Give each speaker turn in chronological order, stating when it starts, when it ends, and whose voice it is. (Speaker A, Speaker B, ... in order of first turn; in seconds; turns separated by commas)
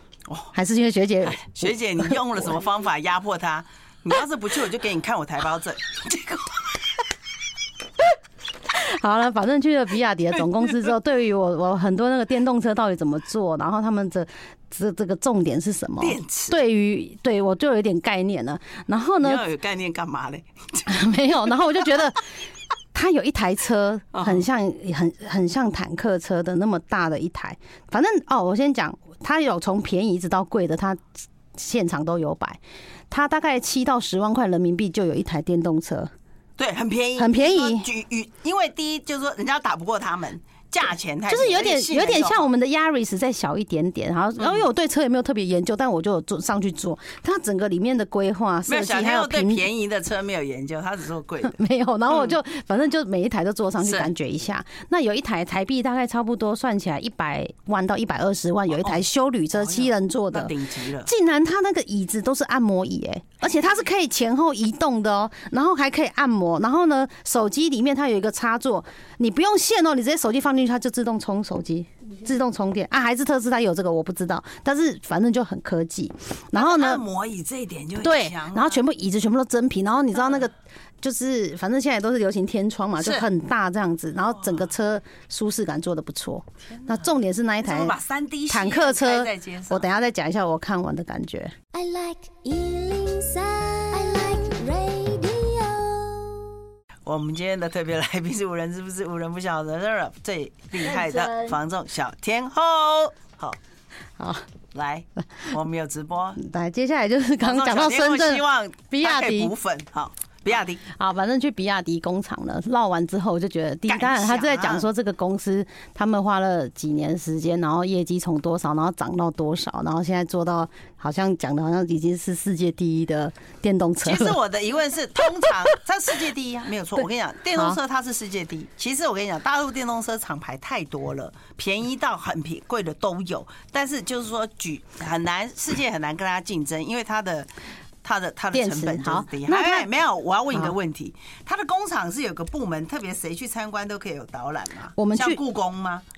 Speaker A: 0.5-2.5, Speaker B: 1.2-6.8, Speaker A: 8.7-19.5, Speaker B: 16.0-16.6, Speaker B: 19.2-21.0, Speaker A: 20.9-22.2, Speaker A: 22.9-31.0, Speaker B: 24.1-24.4, Speaker A: 31.6-36.1, Speaker B: 36.6-42.5, Speaker A: 37.2-37.9, Speaker A: 41.3-49.7, Speaker B: 44.4-44.6, Speaker B: 48.7-51.6, Speaker A: 51.4-60.5, Speaker B: 53.8-54.1, Speaker B: 59.5-61.1, Speaker A: 61.0-77.0, Speaker B: 76.5-78.8, Speaker A: 78.0-88.0, Speaker B: 83.0-83.3, Speaker B: 86.7-89.9, Speaker A: 88.5-91.5, Speaker C: 91.7-96.5, Speaker B: 97.1-103.6, Speaker C: 100.8-101.6, Speaker A: 104.2-104.5, Speaker B: 104.7-106.4, Speaker A: 106.4-109.5, Speaker B: 107.4-110.8, Speaker A: 110.9-124.4, Speaker B: 113.9-114.9, Speaker B: 124.0-137.5, Speaker B: 138.0-146.1, Speaker A: 138.5-139.9, Speaker A: 145.0-145.4